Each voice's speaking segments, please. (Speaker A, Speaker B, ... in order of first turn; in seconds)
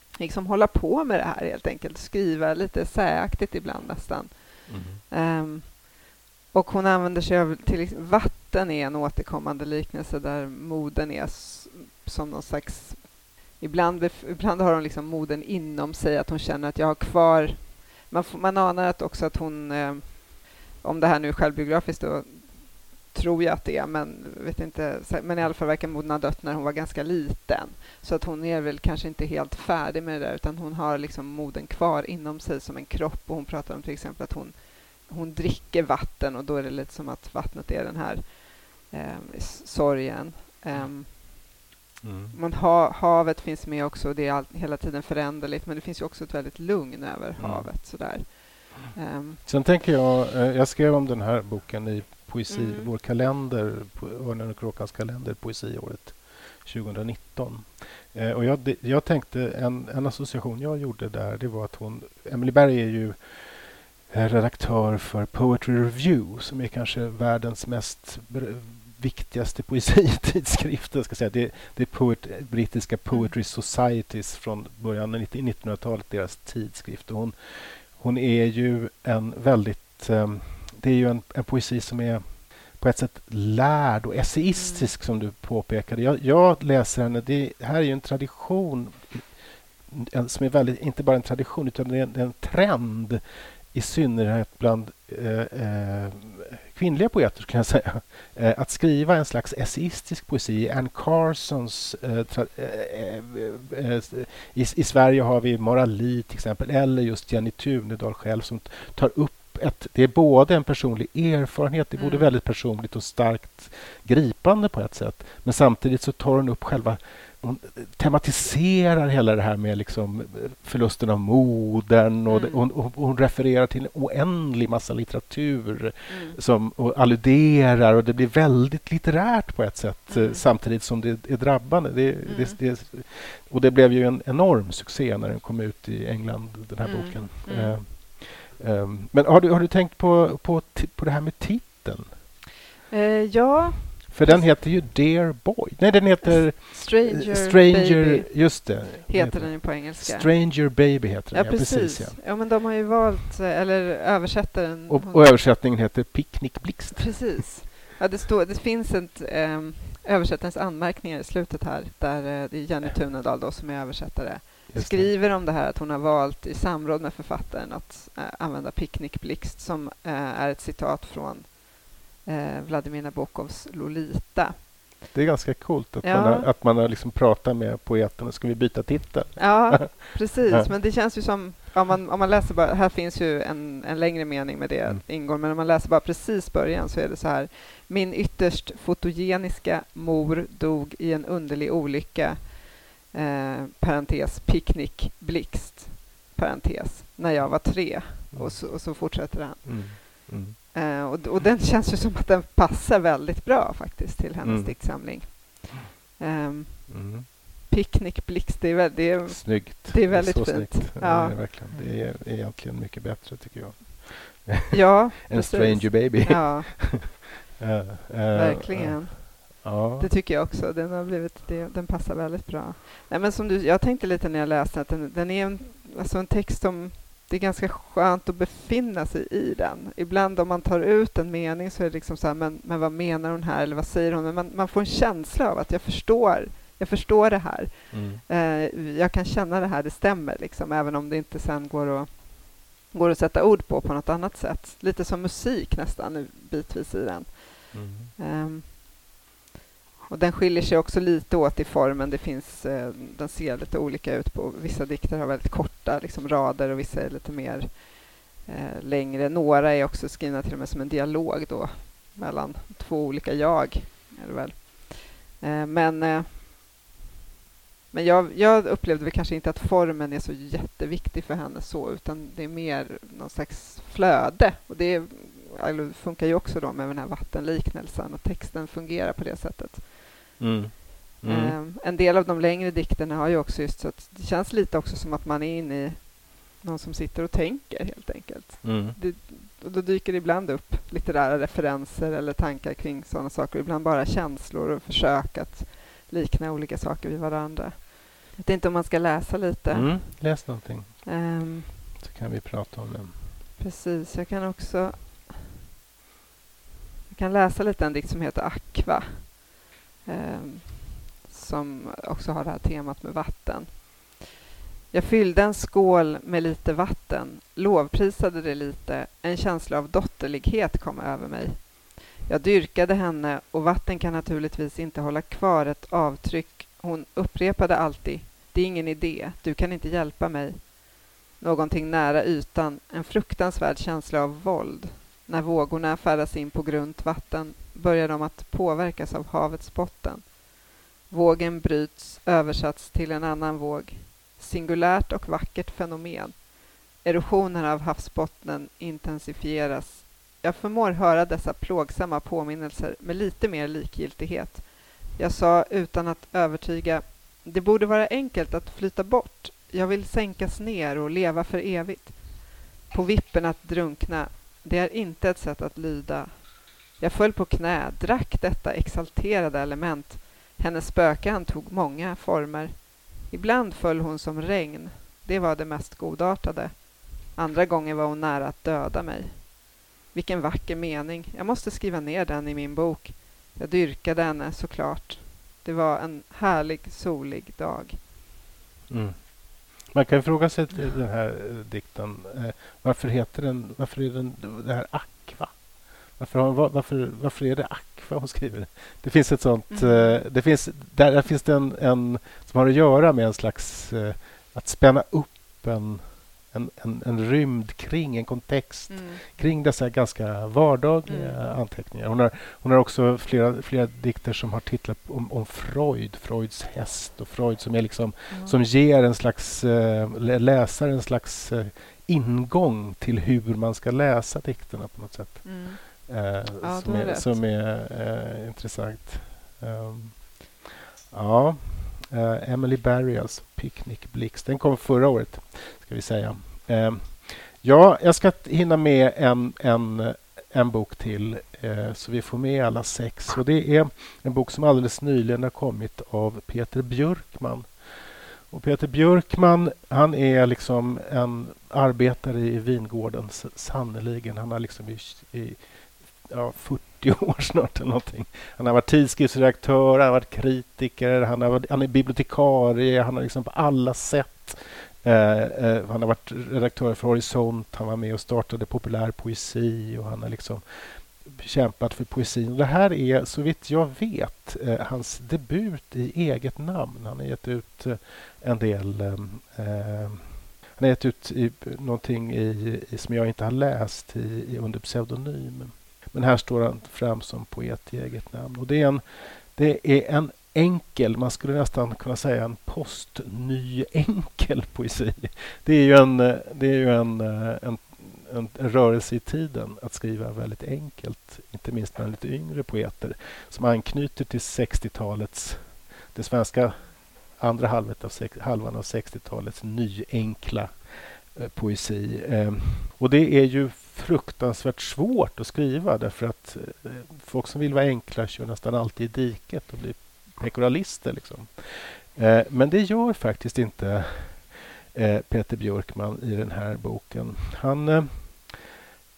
Speaker A: 0.2-41.6, 42.3-49.4, 52.5-52.9, 84.5-84.9, 112.0-112.3, 122.3-122.6, 126.1-126.4, 130.1-130.4, 132.2-132.6, 136.8-137.8, 142.9-144.8, 146.2-155.3, 156.9-174.7, 176.0-176.5, 179.4-211.4, 214.7-217.2, 218.3-248.8, 250.1-266.4, 267.9-280.3, 281.2-302.0, 303.6-305.5, 307.1-309.5, 310.0-314.3, 314.9-340.4, 341.1-388.0, 399.7-400.2, 408.9-409.2, 411.1-411.4, 418.3-418.5, 425.4-427.4
Speaker B: 4.7-5.0, 42.0-42.3, 47.4-47.7, 49.4-89.3, 89.9-142.2, 144.1-152.2, 154.9-157.3, 164.7-165.1, 175.1-180.7, 198.3-198.7, 199.6-200.6, 204.4-204.8, 206.9-207.3, 209.3-214.7, 215.3-220.1, 237.9-238.2, 247.7-248.1, 280.4-281.6, 288.6-289.0, 299.7-301.1, 302.0-303.3, 388.9-528.8